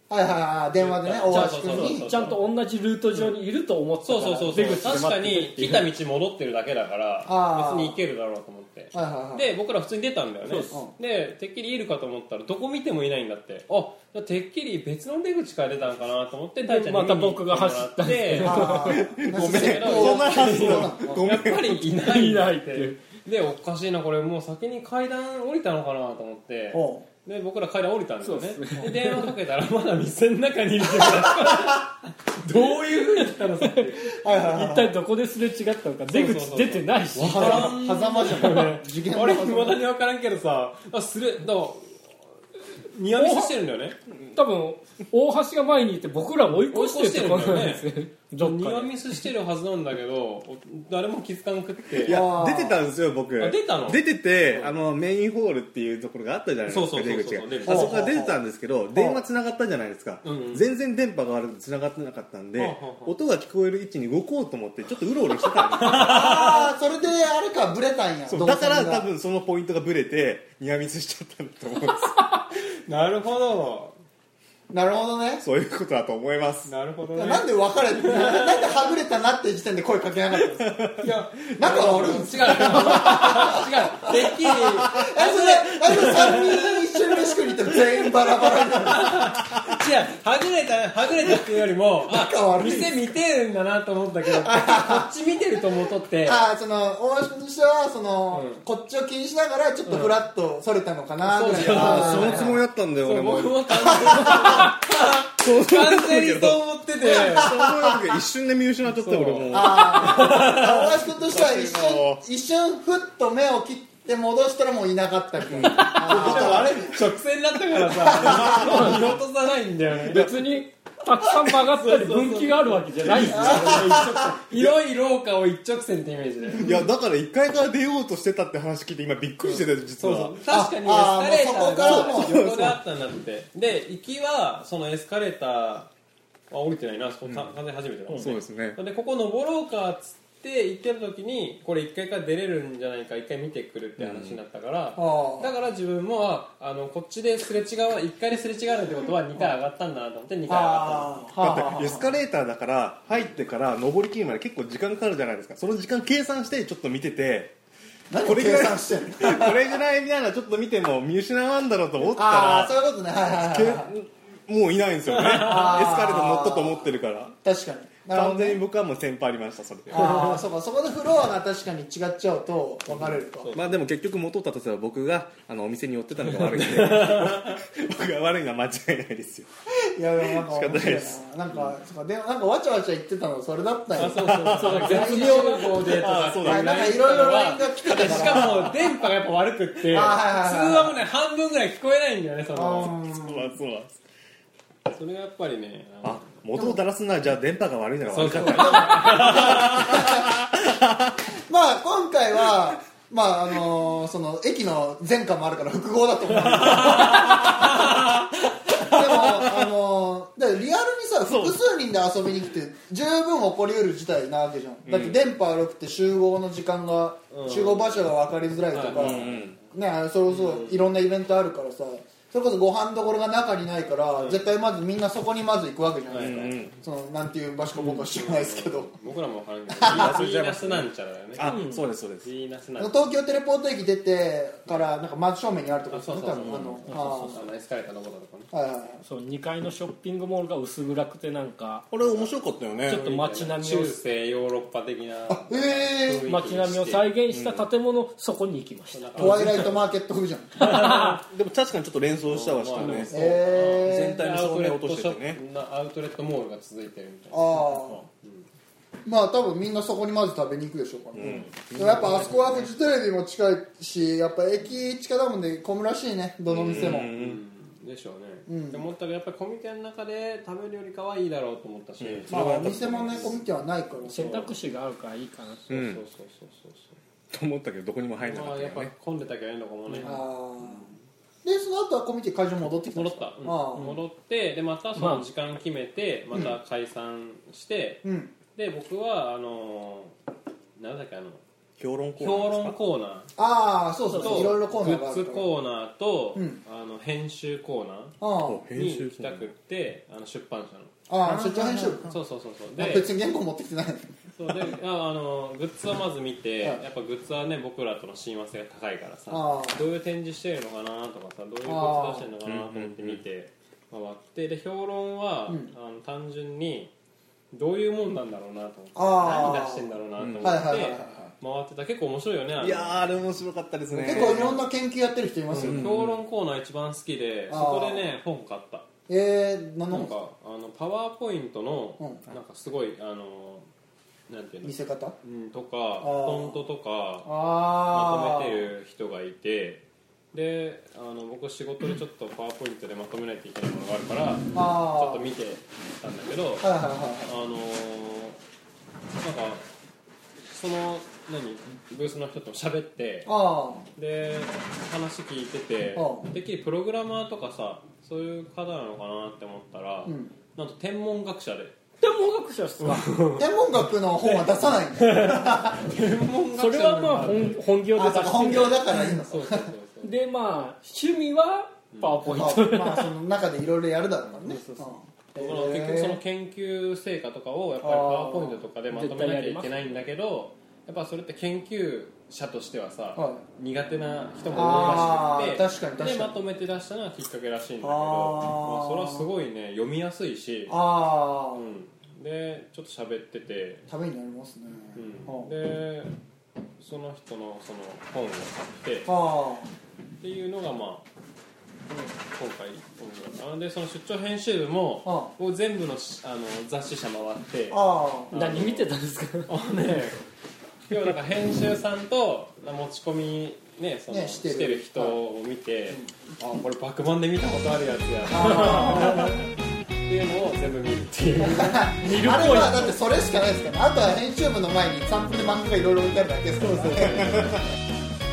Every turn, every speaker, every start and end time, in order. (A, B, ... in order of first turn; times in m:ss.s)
0:00.1-0:02.1 A
0:00.8-0:02.4 B
0:01.3-0:05.9 C
0:04.0-0:34.2 B
0:07.2-0:08.0 A
0:08.9-0:09.6 A
0:10.6-0:10.9 A
0:16.6-0:19.0 C
0:18.4-0:21.3 A
0:18.8-0:21.8 D
0:21.9-0:23.0 C
0:26.7-0:27.0 A
0:28.2-0:29.3 C
0:31.0-0:31.6 A
0:34.1-0:34.9 A
0:34.4-0:37.8 C
0:36.1-0:42.1 B
0:37.2-0:39.8 A
0:42.7-0:44.0 B
0:43.1-0:43.5 C
0:44.3-0:49.1 C
0:46.7-0:52.3 B
0:52.0-1:06.3 D
0:52.0-0:52.8 A
0:53.4-0:54.7 B
0:56.6-0:58.2 B
0:57.6-0:58.4 A
0:58.9-0:59.2 A
1:00.2-1:00.6 B
1:02.6-1:03.1 B
1:05.6-1:06.7 B
1:05.9-1:09.1 A
1:08.3-1:12.3 D
1:12.8-1:14.0 B
1:14.7-1:15.4 A
1:15.4-1:16.7 D
1:16.6-1:18.9 B
1:17.1-1:29.3 A
1:20.4-1:21.5 D
1:21.0-1:36.4 B
1:24.6-1:25.1 D
1:29.3-1:29.8 D
1:32.0-1:33.0 A
1:34.2-1:35.1 A
1:36.2-1:42.6 A
1:38.3-1:38.6 B
1:39.8-1:40.1 B
1:41.2-1:47.6 B
1:41.5-1:50.7 D
1:43.8-1:44.7 A
1:47.1-1:48.0 A
1:48.8-1:51.0 B
1:49.5-1:56.9 A
1:51.2-1:52.2 D
1:55.5-1:56.9 D
1:55.7-2:00.4 B
1:58.0-1:59.0 D
1:58.0-1:58.9 A
1:58.4-1:59.1 C
2:00.1-2:04.4 C
2:01.5-2:06.8 B
2:03.3-2:04.4 A
2:06.6-2:10.4 D
2:06.6-2:06.9 A
2:09.4-2:15.9 B
2:10.5-2:12.7 A
2:11.8-2:12.8 D
2:16.5-2:31.2 B
2:17.2-2:17.5 D
2:18.1-2:18.8 D
2:24.0-2:24.4 D
2:25.0-2:25.5 A
2:30.5-2:32.1 A
2:31.4-2:37.5 D
2:38.1-2:39.8 A
2:38.1-2:42.7 D
2:42.0-2:43.9 A
2:43.4-2:47.4 D
2:45.1-2:45.8 B
2:45.4-2:46.9 A
2:47.4-2:48.6 A
2:48.1-2:50.4 D
2:49.9-2:53.5 A
2:49.9-2:50.4 B
2:52.9-2:59.5 D
2:53.3-2:53.7 B
2:56.2-2:57.6 B
2:59.9-3:08.7 A
3:00.3-3:01.7 D
3:04.0-3:13.0 B
3:04.0-3:05.1 D
3:04.5-3:05.9 C
3:05.8-3:07.0 D
3:07.9-3:08.7 D
3:09.9-3:11.0 A
3:12.5-3:13.6 A
3:13.1-3:13.9 D
3:14.9-3:16.3 B
3:16.0-3:21.3 D
3:18.1-3:19.9 B
3:18.6-3:20.3 A
3:21.5-3:27.9 A
3:26.5-3:28.0 B
3:26.6-3:29.7 D
3:28.7-3:48.9 A
3:31.3-3:31.6 D
3:34.8-3:35.2 D
3:37.3-3:38.1 B
3:38.7-3:39.6 B
3:38.8-3:39.6 D
3:40.3-3:40.9 B
3:44.1-3:44.4 B
3:46.1-3:46.8 B
3:46.1-3:46.7 D
3:47.8-3:51.6 B
3:49.7-3:50.2 A
3:49.8-3:52.3 D
3:51.4-3:51.8 C
3:52.2-3:53.0 B
3:52.8-3:57.4 A
3:55.9-3:58.5 B
3:56.4-3:56.7 D
3:56.9-3:57.4 C
3:58.5-3:59.0 A
3:59.0-4:01.9 C
4:01.9-4:03.0 D
4:02.0-4:02.3 B
4:02.8-4:04.0 C
4:02.9-4:07.1 B
4:05.3-4:06.2 A
4:06.2-4:09.8 C
4:07.3-4:07.6 D
4:08.9-4:09.8 B
4:09.2-4:10.8 A
4:10.6-4:11.2 C
4:10.7-4:11.2 B
4:10.8-4:15.4 D
4:12.2-4:18.5 B
4:13.1-4:14.2 A
4:17.3-4:18.0 A
4:19.0-4:27.1 A
4:21.2-4:22.5 D
4:21.2-4:22.7 B
4:26.5-4:27.4 D
4:26.5-4:32.4 B
4:28.5-4:28.8 A
4:32.0-4:33.4 D
4:32.3-4:34.4 A
4:33.1-4:33.4 B
4:34.1-4:35.7 C
4:34.1-4:34.5 B
4:35.7-4:37.0 B
4:35.7-4:36.0 D
4:37.3-4:38.9 D
4:38.2-4:41.0 B
4:40.0-4:40.9 A
4:41.4-4:44.0 A
4:42.9-4:50.1 B
4:44.9-4:45.2 C
4:48.0-4:48.3 A
4:50.8-4:51.4 B
4:51.8-4:52.8 D
4:52.2-4:53.3 B
4:53.4-4:55.5 A
4:54.1-4:54.6 C
4:54.1-4:58.2 B
4:56.3-4:56.6 A
4:58.2-4:58.6 A
4:58.5-4:59.5 D
4:58.7-5:00.9 B
5:01.1-5:02.1 A
5:01.2-5:02.1 D
5:02.0-5:03.1 B
5:02.8-5:04.1 A
5:04.4-5:16.9 B
5:09.3-5:09.8 A
5:11.6-5:12.3 A
5:12.4-5:13.2 D
5:17.5-5:23.1 B
5:19.0-5:21.3 A
5:20.2-5:20.6 D
5:22.6-5:24.6 D
5:23.9-5:25.9 A
5:24.0-5:24.6 B
5:25.5-5:28.9 B
5:25.5-5:26.2 D
5:27.5-5:28.0 A
5:29.1-5:30.1 A
5:29.9-5:33.6 B
5:34.3-5:37.3 B
5:34.6-5:35.1 A
5:36.0-5:36.6 A
5:37.2-5:38.7 A
5:37.8-5:39.8 B
5:40.3-5:46.7 B
5:44.5-5:45.3 A
5:46.6-5:47.3 A
5:47.2-5:48.4 B
5:49.2-5:49.6 B
5:50.5-5:53.3 B
5:53.2-5:53.8 A
5:53.9-6:01.8 B
5:55.9-5:56.3 A
6:00.0-6:00.3 A
6:02.0-6:03.0 C
6:02.8-6:03.5 B
6:03.4-6:05.9 A
6:04.2-6:07.6 B
6:06.6-6:08.9 C
6:07.9-6:09.7 A
6:08.4-6:10.1 B
6:10.0-6:13.1 C
6:11.9-6:12.2 B
6:12.2-6:16.2 A
6:14.4-6:14.9 C
6:15.4-6:30.8 B
6:17.8-6:18.6 A
6:18.9-6:19.7 C
6:23.2-6:23.4 A
6:24.5-6:26.4 A
6:27.8-6:29.3 A
6:30.7-6:31.7 A
6:31.5-6:33.8 B
6:33.9-6:35.5 A
6:34.9-6:36.1 B
6:36.8-6:39.1 B
6:39.0-6:39.7 A
6:40.2-6:41.1 B
6:42.2-6:48.9 B
6:45.0-6:45.3 A
6:47.7-6:48.3 A
6:48.3-6:49.5 C
6:49.5-6:50.2 B
6:50.9-6:59.4 B
6:54.1-6:55.2 A
6:58.3-6:59.4 A
7:00.0-7:01.9 B
7:01.4-7:07.5 A
7:02.0-7:03.0 C
7:06.6-7:07.6 B